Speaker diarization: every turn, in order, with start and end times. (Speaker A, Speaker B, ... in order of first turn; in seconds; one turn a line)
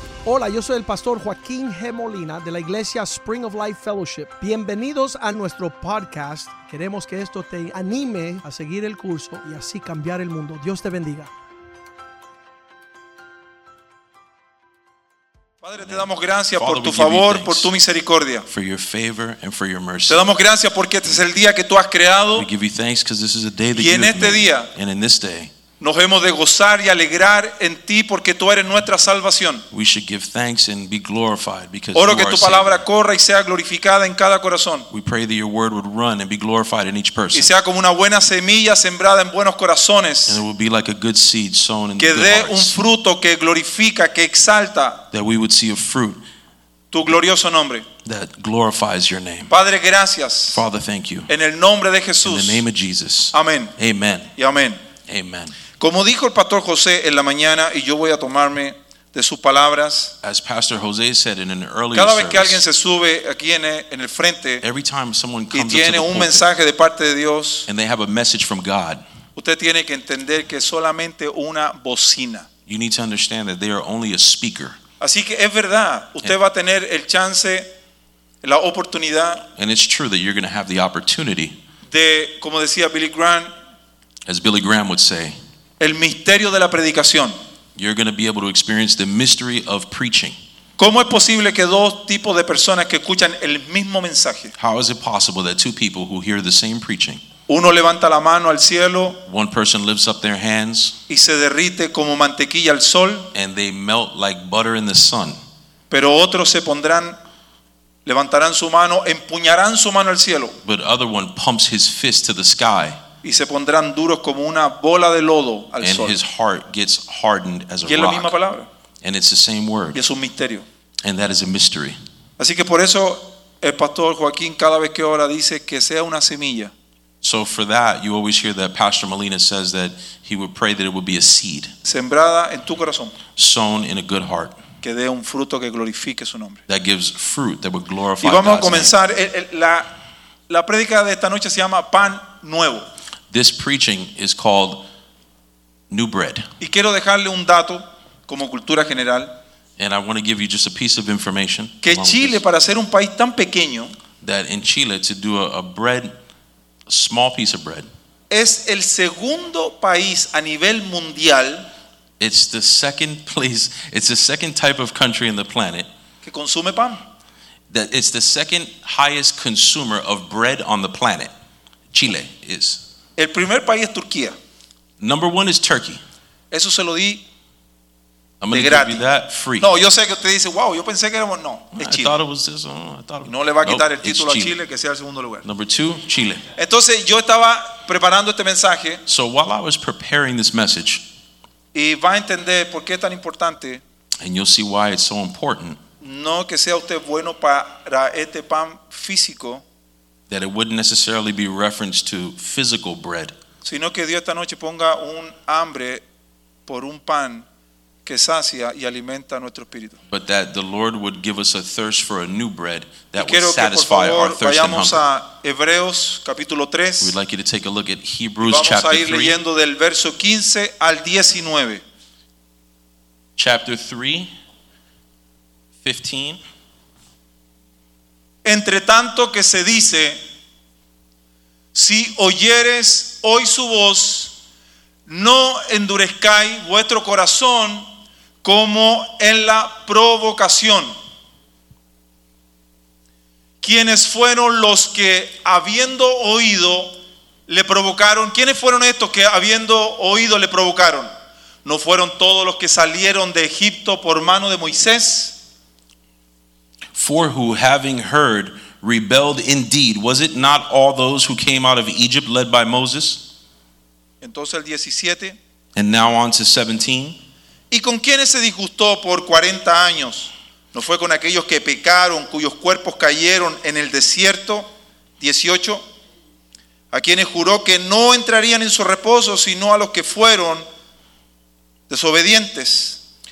Speaker A: 0.2-11.3
Speaker B: 15.6-18.5
Speaker C: 15.8-17.7
Speaker C: 18.5-20.2
Speaker B: 20.1-22.5
Speaker C: 22.4-25.5
Speaker B: 23.8-24.7
Speaker B: 25.8-29.6
Speaker C: 29.7-32.8
Speaker B: 31.9-34.9
Speaker C: 34.9-37.5
Speaker B: 37.3-40.4
Speaker C: 40.3-42.8
Speaker B: 42.0-45.0
Speaker C: 45.1-46.2
Speaker B: 46.9-47.9
Speaker C: 48.0-49.5
Speaker B: 49.5-50.6
Speaker C: 50.5-51.3
Speaker B: 51.3-52.6
Speaker C: 52.2-54.3
Speaker B: 53.3-53.7
Speaker B: 54.4-54.8
Speaker C: 55.1-55.6
Speaker B: 55.8-60.1
Speaker C: 60.2-62.6
Speaker B: 61.9-64.6
Speaker C: 64.6-66.5
Speaker B: 65.5-67.7
Speaker C: 67.7-69.0
Speaker B: 69.4-72.5
Speaker C: 72.7-74.8
Speaker B: 75.0-77.7
Speaker B: 78.4-79.5
Speaker C: 79.6-81.5
Speaker B: 81.9-83.5
Speaker C: 84.3-85.4
Speaker B: 85.8-87.4
Speaker C: 87.8-90.3
Speaker B: 90.8-94.5
Speaker C: 94.6-97.2
Speaker B: 97.5-99.2
Speaker C: 99.3-101.0
Speaker B: 101.1-103.3
Speaker C: 103.3-105.4
Speaker B: 105.9-107.2
Speaker B: 108.1-110.6
Speaker C: 110.6-113.0
Speaker B: 113.2-116.2
Speaker C: 115.8-118.3
Speaker B: 117.9-118.7
Speaker C: 119.0-120.0
Speaker B: 119.9-120.7
Speaker C: 121.0-122.0
Speaker B: 122.4-126.7
Speaker C: 127.2-131.7
Speaker B: 131.8-133.2
Speaker C: 133.4-134.6
Speaker B: 134.8-136.6
Speaker C: 136.7-138.9
Speaker B: 138.2-139.9
Speaker B: 140.5-142.9
Speaker C: 143.3-144.9
Speaker C: 145.9-146.5
Speaker B: 146.6-149.3
Speaker C: 149.8-152.4
Speaker B: 151.8-153.9
Speaker C: 154.2-156.1
Speaker C: 156.9-157.9
Speaker B: 158.3-161.7
Speaker C: 162.2-165.9
Speaker B: 166.2-167.0
Speaker C: 167.7-171.3
Speaker C: 171.9-172.8
Speaker B: 173.2-174.3
Speaker C: 175.0-176.0
Speaker B: 176.5-177.2
Speaker C: 178.4-179.7
Speaker B: 178.5-179.0
Speaker B: 179.6-182.2
Speaker C: 181.8-184.6
Speaker B: 183.2-185.4
Speaker C: 185.4-186.4
Speaker B: 186.6-189.0
Speaker C: 189.1-191.0
Speaker B: 191.7-193.8
Speaker C: 194.2-195.8
Speaker B: 196.0-199.6
Speaker C: 200.3-203.3
Speaker B: 203.7-206.0
Speaker B: 206.7-207.5
Speaker B: 208.1-210.0
Speaker C: 210.1-215.1
Speaker B: 213.2-217.2
Speaker C: 217.0-219.4
Speaker B: 218.4-221.8
Speaker C: 223.4-224.3
Speaker C: 225.8-226.4
Speaker B: 228.4-230.2
Speaker B: 231.7-234.3
Speaker B: 235.1-237.8
Speaker B: 238.4-240.9
Speaker B: 243.6-246.9
Speaker B: 247.5-251.1
Speaker B: 251.7-255.4
Speaker C: 256.9-263.2
Speaker B: 264.2-265.4
Speaker C: 265.8-267.2
Speaker B: 267.7-274.7
Speaker B: 275.2-275.8
Speaker B: 276.9-280.7
Speaker B: 281.9-283.0